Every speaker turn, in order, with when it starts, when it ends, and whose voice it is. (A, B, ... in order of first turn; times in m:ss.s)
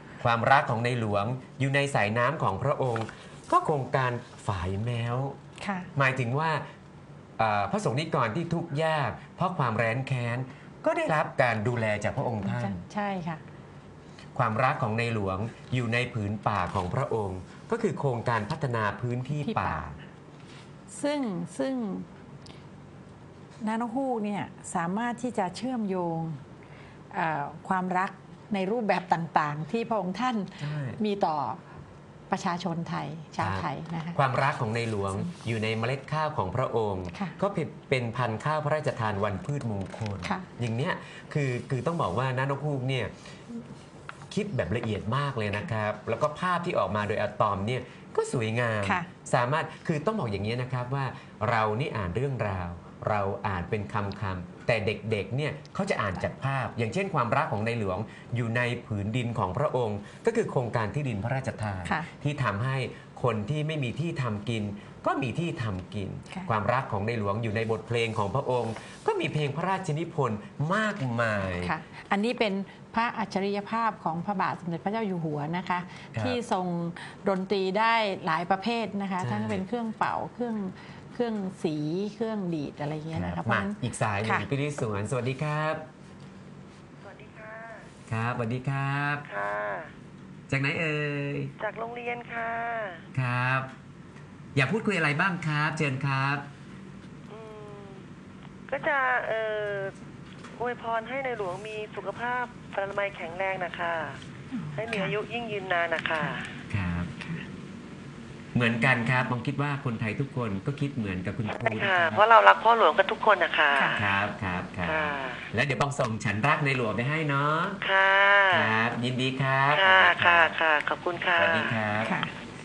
0:00.2-0:05.4 A
0:05.6-0:05.9 B
0:05.9-0:06.6 A
0:07.4-0:12.8 A
0:12.4-0:13.4 B
0:14.3-0:20.0 A
0:19.3-0:20.0 B
0:20.9-0:22.1 B
0:23.6-0:26.4 B
0:27.1-0:31.6 B
0:30.6-0:31.0 A
0:32.3-0:34.2 B
0:33.4-0:43.1 A
0:44.3-1:11.7 A
1:11.4-1:24.5 B
1:16.1-1:16.4 A
1:19.2-1:19.6 A
1:23.1-1:25.8 A
1:27.0-1:27.9 C
1:28.1-1:29.3 A
1:29.2-1:29.9 C
1:30.5-1:31.5 A
1:31.6-1:33.0 C
1:33.1-1:33.7 A
1:34.5-1:36.4 A
1:37.3-1:38.0 C
1:38.7-1:39.9 C
1:40.6-1:44.2 C
1:44.5-1:45.2 B
1:44.7-1:46.5 C
1:46.7-1:47.1 A
1:48.5-1:52.2 A
1:51.5-1:54.0 C
1:53.9-1:57.8 A
1:54.8-1:55.4 C
1:57.8-1:58.8 C
1:58.5-2:00.5 A
1:59.7-2:01.8 C
2:01.4-2:02.1 A
2:02.0-2:02.3 B